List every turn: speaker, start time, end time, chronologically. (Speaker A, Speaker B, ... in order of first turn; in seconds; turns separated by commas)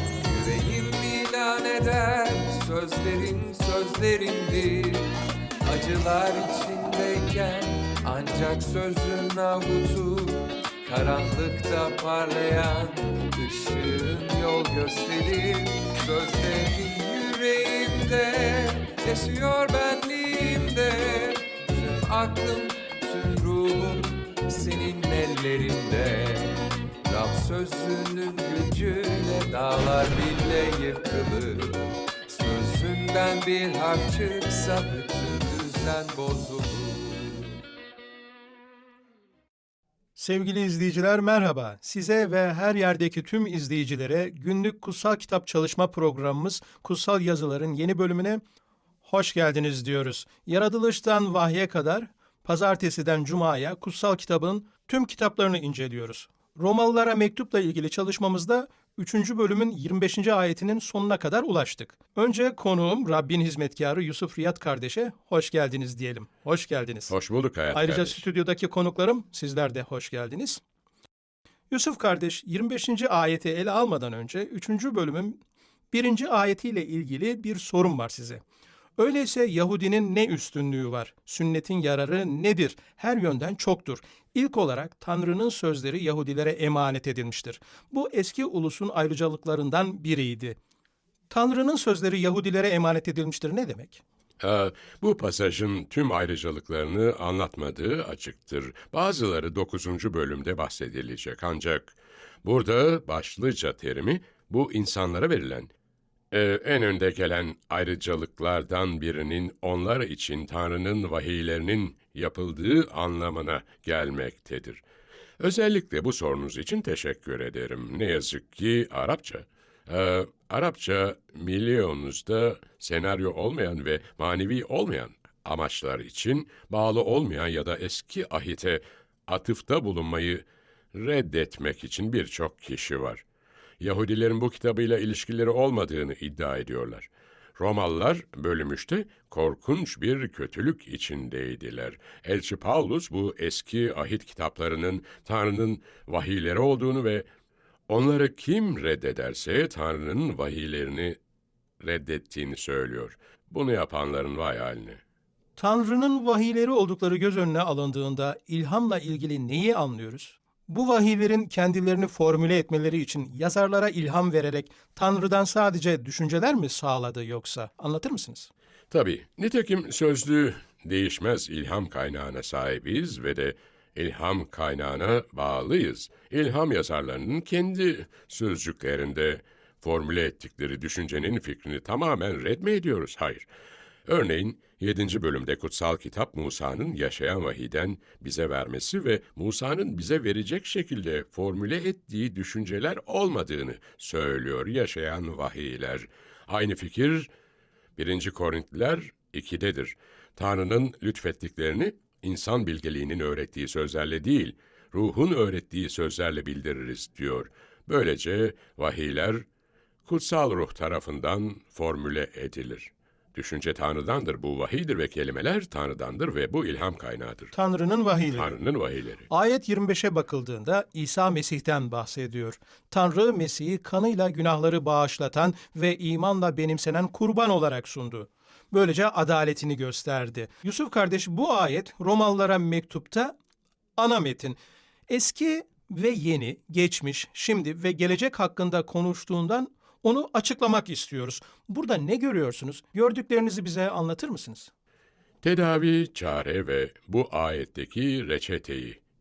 Speaker A: 0.2-5.1, Speaker A: 5.7-37.6, Speaker B: 40.2-48.4, Speaker B: 49.0-67.1, Speaker C: 67.1-68.2, Speaker B: 67.7-70.6, Speaker B: 71.7-75.4, Speaker B: 75.9-78.4, Speaker B: 79.0-90.6, Speaker B: 91.3-94.0, Speaker C: 94.4-105.7, Speaker C: 106.3-114.8, Speaker C: 115.4-133.2, Speaker C: 133.8-147.3, Speaker C: 147.9-151.2, Speaker C: 151.8-155.0, Speaker B: 155.6-168.5, Speaker C: 168.9-183.4, Speaker C: 184.1-197.3, Speaker C: 198.0-209.4, Speaker C: 210.1-217.5, Speaker B: 217.5-218.6, Speaker C: 218.3-219.3, Speaker B: 219.3-233.4, Speaker B: 234.0-244.7, Speaker C: 245.4-249.0